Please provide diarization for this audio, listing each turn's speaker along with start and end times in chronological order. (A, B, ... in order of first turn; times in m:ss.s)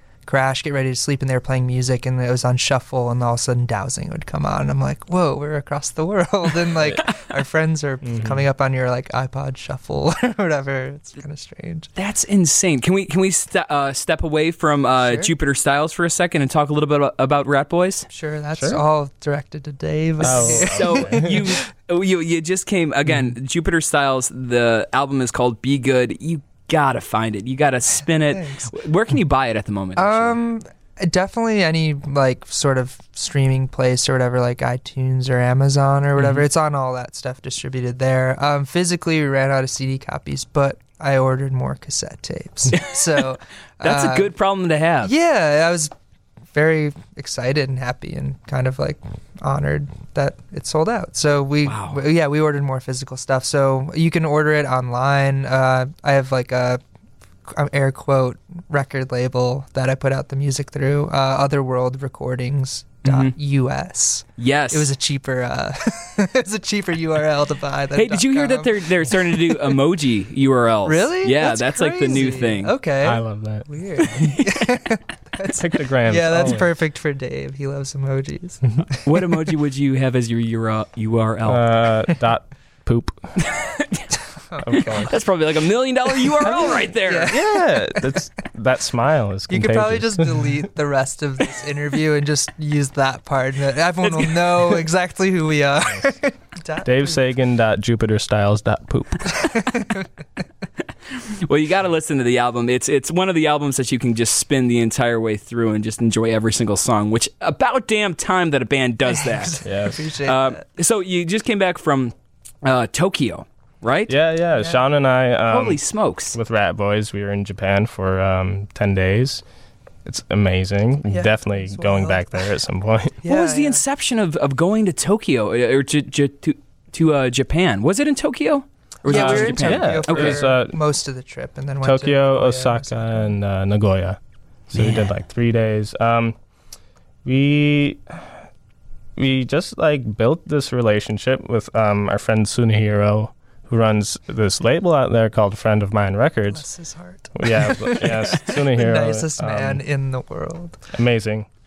0:00.2-0:11.9 A
0:08.0-0:08.4 B
0:12.0-0:18.1 C
0:15.0-0:15.3 A
0:18.1-0:21.6 A
0:18.6-0:18.8 B
0:20.2-0:30.4 C
0:20.2-0:21.4 B
0:28.3-0:28.7 A
0:30.0-0:44.3 A
0:36.2-0:36.4 C
0:42.7-0:43.3 C
0:43.8-0:45.1 C
0:45.0-0:45.9 A
0:46.5-0:56.8 A
0:51.6-0:52.0 C
0:57.5-1:09.7 A
1:03.0-1:03.3 C
1:04.4-1:04.9 C
1:07.9-1:12.7 C
1:10.8-1:19.2 A
1:13.0-1:13.7 B
1:14.1-1:14.5 C
1:15.6-1:16.6 B
1:19.0-1:21.7 C
1:21.4-1:23.4 B
1:23.4-1:24.1 C
1:24.5-1:25.1 A
1:24.6-1:25.1 B
1:24.7-1:27.4 C
1:26.2-1:28.2 A
1:26.5-1:30.6 B
1:29.5-1:37.2 A
1:34.0-1:34.8 C
1:36.8-1:39.4 B
1:39.3-1:40.0 A
1:41.1-1:49.6 C
1:49.2-1:50.6 A
1:49.6-1:50.0 B
1:50.2-1:54.1 C
1:54.1-1:55.8 B
1:55.5-1:56.4 C
1:56.3-1:59.4 B
2:00.0-2:03.2 B
2:01.1-2:02.5 A
2:03.2-2:03.8 A
2:03.2-2:10.4 C
2:09.0-2:13.3 A
2:09.1-2:10.8 B
2:11.8-2:16.4 B
2:17.2-2:18.3 B
2:19.2-2:26.6 B
2:26.5-2:30.8 A
2:27.3-2:29.8 B
2:30.9-2:31.5 B